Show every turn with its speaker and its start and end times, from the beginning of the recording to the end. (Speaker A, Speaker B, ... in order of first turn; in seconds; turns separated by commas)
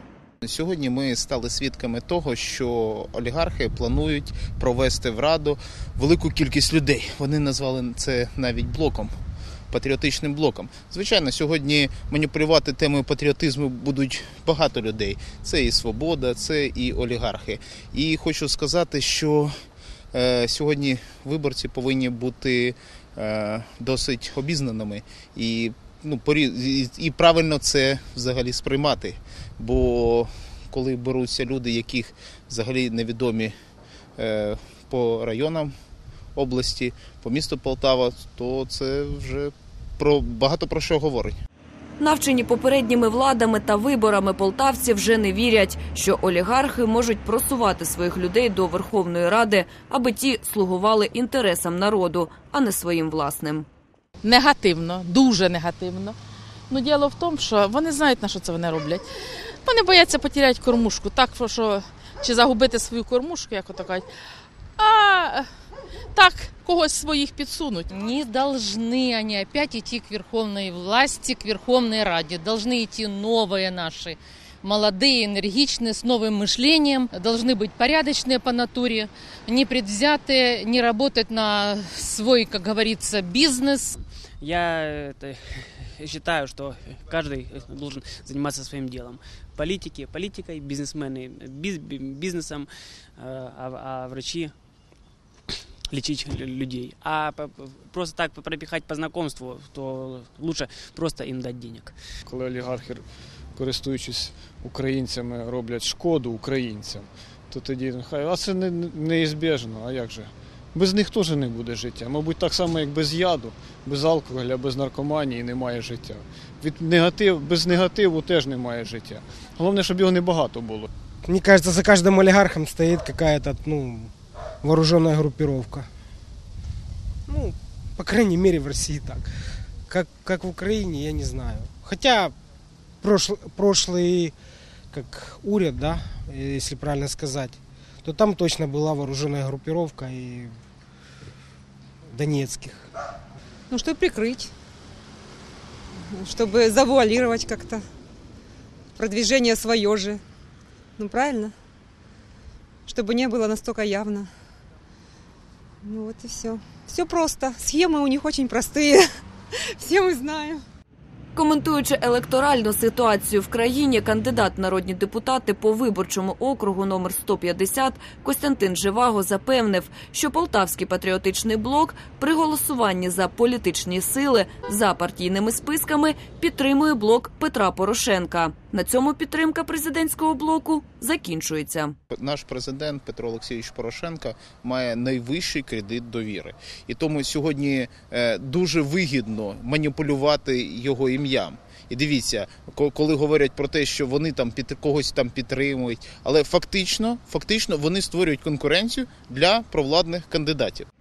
Speaker A: 0.4-9.1, Speaker A: 9.7-19.5, Speaker A: 20.1-33.5, Speaker A: 34.2-35.7, Speaker A: 36.3-41.4, Speaker B: 42.0-53.6, Speaker C: 54.2-56.1, Speaker C: 56.7-59.0, Speaker C: 59.6-64.1, Speaker C: 64.8-65.5, Speaker C: 66.1-67.9, Speaker D: 67.9-84.0, Speaker E: 84.4-94.5, Speaker E: 95.9-101.9, Speaker F: 102.2-103.0, Speaker F: 103.5-120.9, Speaker G: 121.2-125.9, Speaker G: 127.3-129.3, Speaker G: 129.9-132.3, Speaker G: 133.0-134.3, Speaker G: 134.9-140.5, Speaker G: 142.1-142.8, Speaker H: 143.7-144.5, Speaker H: 146.1-147.8, Speaker H: 148.9-150.2, Speaker H: 151.0-151.5, Speaker H: 152.9-154.3, Speaker H: 155.8-160.6, Speaker B: 161.3-181.9, Speaker A: 182.1-200.9